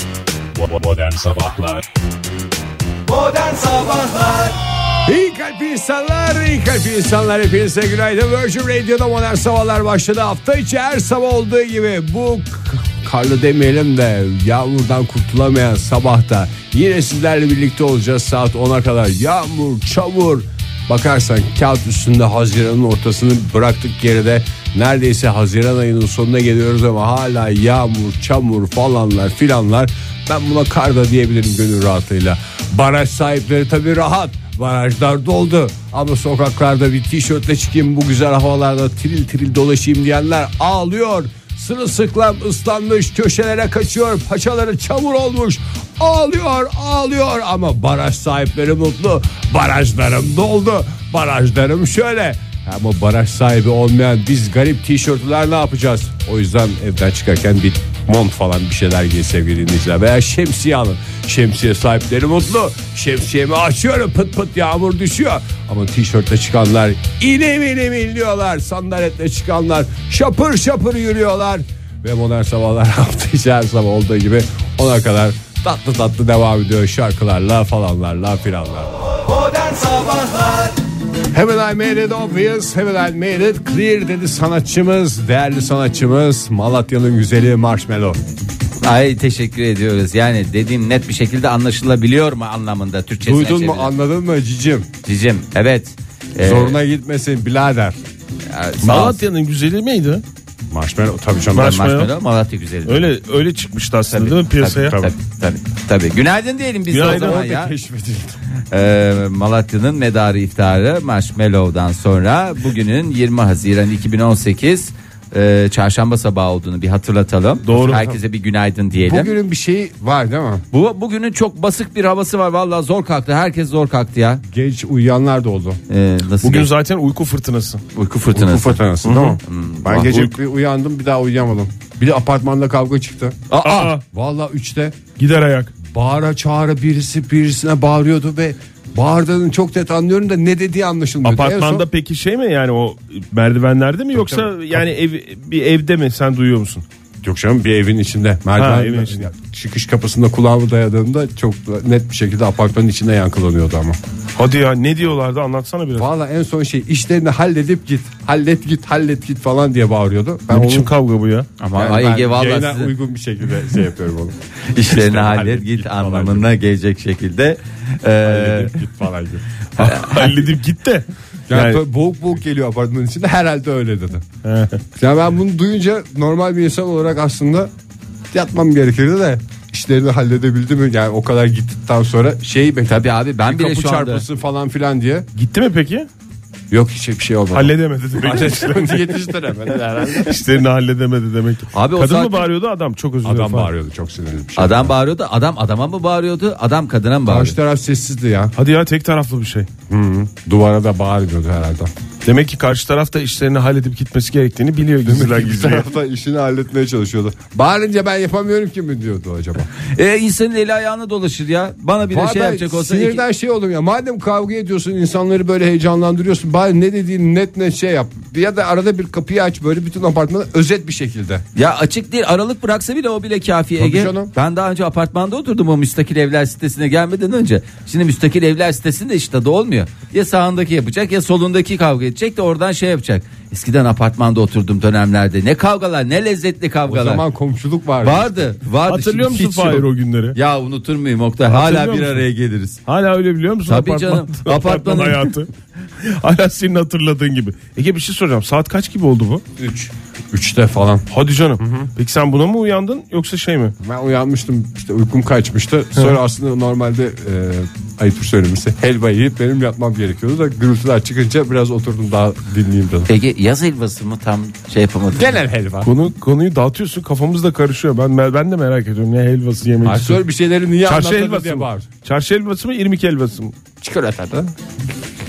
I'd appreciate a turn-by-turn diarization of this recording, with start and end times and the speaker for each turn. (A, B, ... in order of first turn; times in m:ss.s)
0:00.6-0:01.8 A
0:05.0-1:18.9 A
1:20.0-1:20.4 B
1:21.3-1:28.2 A
1:28.8-1:33.9 B
1:33.2-1:34.9 A
1:35.0-1:36.8 B
1:36.4-1:38.0 A
1:38.5-1:39.2 B
1:38.8-1:40.2 C
1:40.7-1:41.8 A
1:41.5-1:42.1 C
1:41.6-1:43.1 B
1:42.8-1:45.0 C
1:44.1-1:47.7 B
1:46.9-1:47.4 C
1:47.0-1:48.4 A
1:48.7-1:59.4 B
1:57.6-1:58.0 C
1:57.8-1:58.2 A
1:59.0-2:00.6 A
2:00.7-2:04.4 B
2:04.5-2:05.8 A
2:05.9-2:06.7 B
2:06.4-2:07.8 C
2:07.9-2:08.8 B
2:08.3-2:13.4 A
2:09.0-2:09.4 C
2:09.4-2:10.1 B
2:13.5-2:13.9 B
2:13.6-2:14.0 C
2:14.1-2:15.0 A
2:15.2-2:15.7 C
2:15.8-2:21.8 A
2:21.2-2:26.8 C
2:24.1-2:24.8 A
2:27.2-2:34.0 A
2:28.6-2:29.3 C
2:34.4-2:36.1 C
2:36.0-2:40.9 A
2:40.5-2:41.5 C
2:41.6-2:42.9 B
2:41.8-2:46.5 A
2:44.7-2:48.7 B
2:48.2-2:49.4 A
2:49.8-2:51.8 C
2:49.8-2:50.3 B
2:51.5-2:54.2 A
2:54.4-2:54.8 C
2:55.0-2:57.7 A
2:58.3-3:05.3 A
3:02.9-3:04.2 B
3:05.4-3:06.1 C
3:06.7-3:10.4 A
3:07.5-3:09.2 C
3:10.2-3:13.7 C
3:11.7-3:12.5 B
3:13.2-3:14.9 A
3:14.6-3:17.6 B
3:17.2-3:18.5 A
3:18.6-3:19.7 C
3:19.9-3:21.9 A
3:22.2-3:25.8 C
3:25.0-3:29.7 A
3:29.9-3:33.2 B
3:32.1-3:41.4 A
3:41.5-3:57.2 B
3:43.8-3:44.3 A
3:56.9-3:58.5 A
3:58.0-4:02.8 B
3:58.9-4:00.4 C
4:01.5-4:02.2 C
4:02.9-4:05.5 C
4:03.7-4:05.3 B
4:06.0-4:09.4 C
4:09.6-4:11.0 A
4:11.1-4:13.7 C
4:11.6-4:11.9 A
4:13.8-4:23.1 A
4:23.1-4:25.4 B
4:25.1-4:25.9 A
4:25.8-4:30.2 C
4:29.8-4:31.8 A
4:30.8-4:33.5 C
4:33.8-4:34.5 A